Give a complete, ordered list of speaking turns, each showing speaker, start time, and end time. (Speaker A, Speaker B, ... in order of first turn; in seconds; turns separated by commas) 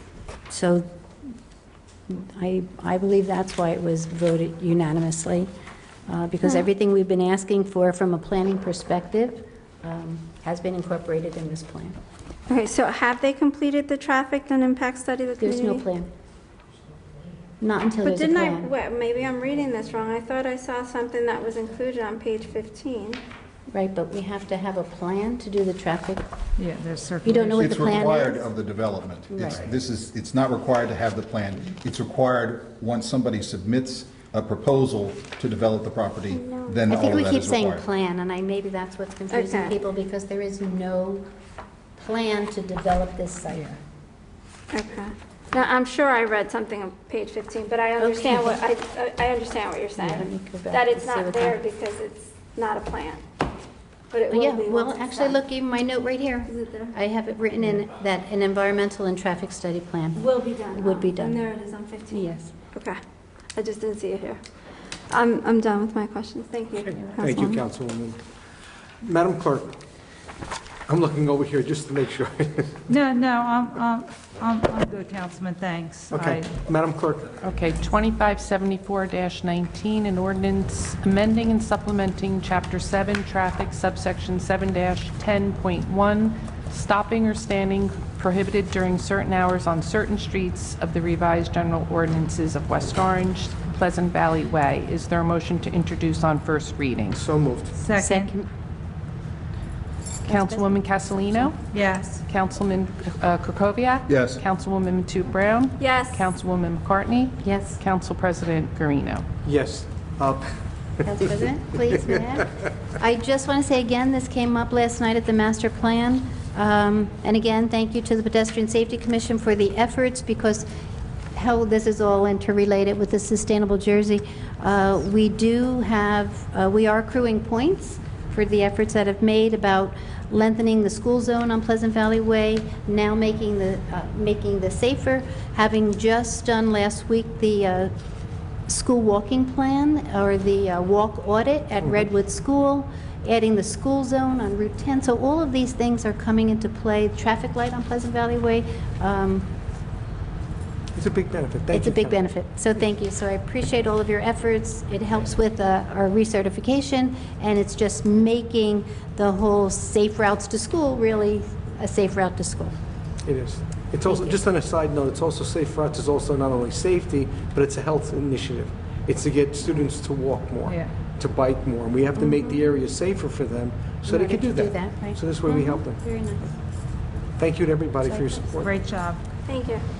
Speaker A: 0.5-0.9, Speaker A: 2.1-5.5, Speaker A: 6.1-12.0, Speaker B: 12.5-15.8, Speaker A: 15.4-16.1, Speaker A: 17.6-18.7, Speaker B: 18.0-23.2, Speaker A: 23.7-26.2, Speaker C: 26.6-27.7, Speaker A: 27.2-28.5, Speaker D: 27.5-37.8, Speaker A: 29.3-29.7, Speaker B: 36.3-36.9, Speaker A: 36.9-41.3, Speaker B: 39.3-39.8, Speaker A: 42.0-43.8, Speaker B: 44.7-53.2, Speaker A: 48.0-48.6, Speaker A: 50.0-51.6, Speaker B: 54.1-55.4, Speaker A: 54.3-61.4, Speaker B: 56.5-57.0, Speaker B: 60.2-63.0, Speaker A: 62.1-62.5, Speaker B: 63.5-64.4, Speaker B: 65.1-67.6, Speaker E: 67.2-68.2, Speaker E: 69.0-69.8, Speaker E: 70.9-72.8, Speaker C: 72.9-76.6, Speaker E: 76.1-77.3, Speaker F: 77.4-97.2, Speaker E: 97.1-97.8, Speaker C: 97.8-98.3, Speaker A: 98.0-98.5, Speaker A: 100.2-101.5, Speaker F: 100.3-101.7, Speaker C: 101.7-102.2, Speaker F: 102.2-109.3, Speaker D: 104.1-104.4, Speaker B: 105.8-106.2, Speaker A: 107.4-107.8, Speaker E: 109.4-111.3, Speaker A: 111.0-120.7, Speaker A: 121.3-137.9, Speaker A: 138.7-149.5, Speaker E: 150.9-152.2, Speaker A: 151.7-162.8, Speaker E: 163.2-176.0, Speaker A: 164.1-164.4, Speaker C: 170.7-170.9, Speaker A: 174.1-176.5, Speaker E: 177.4-178.8, Speaker A: 178.1-178.5, Speaker C: 178.6-179.2, Speaker B: 179.5-179.8